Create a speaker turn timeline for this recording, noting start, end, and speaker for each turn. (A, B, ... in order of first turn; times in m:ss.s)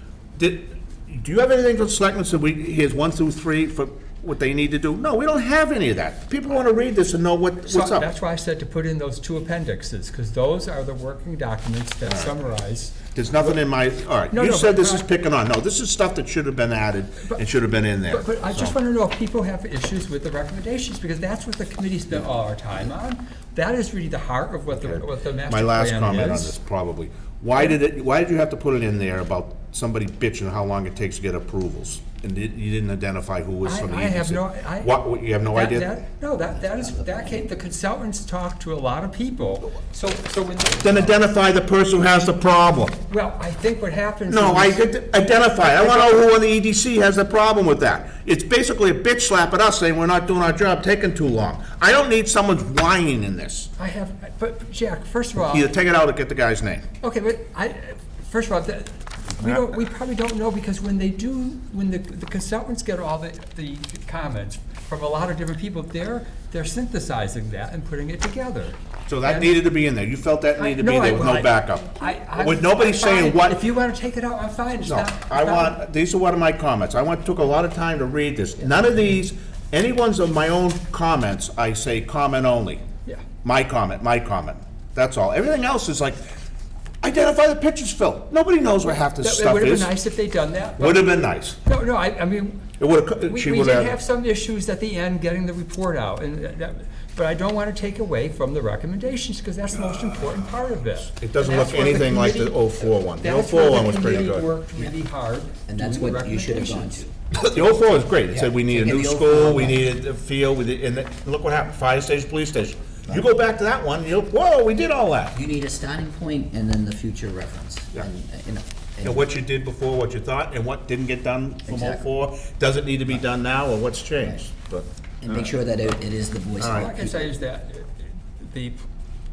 0:00.4-0:08.1 A
0:07.6-0:13.6 B
0:12.0-0:12.4 A
0:13.1-0:18.8 A
0:14.3-0:15.0 B
0:18.1-0:26.5 B
0:24.7-0:35.9 A
0:33.6-0:41.2 B
0:36.6-0:37.3 C
0:40.8-0:43.0 A
0:43.1-0:44.8 B
0:44.3-0:53.7 A
0:45.6-0:46.2 B
0:53.8-0:55.7 B
0:55.4-0:56.8 A
0:57.0-1:09.6 B
0:59.4-0:59.7 A
1:09.1-1:13.6 A
1:10.6-1:15.8 B
1:14.8-1:22.8 A
1:23.4-1:26.3 A
1:27.0-1:29.9 A
1:28.8-1:32.6 B
1:30.8-1:31.6 A
1:32.8-1:34.0 A
1:33.2-1:47.0 B
1:39.7-1:44.5 A
1:45.7-1:47.7 C
1:47.3-1:55.4 A
1:48.3-1:49.9 C
1:55.3-1:59.3 C
1:59.0-2:05.6 A
2:01.6-2:02.0 C
2:05.2-2:07.3 C
2:06.6-2:06.9 A
2:06.7-2:08.8 B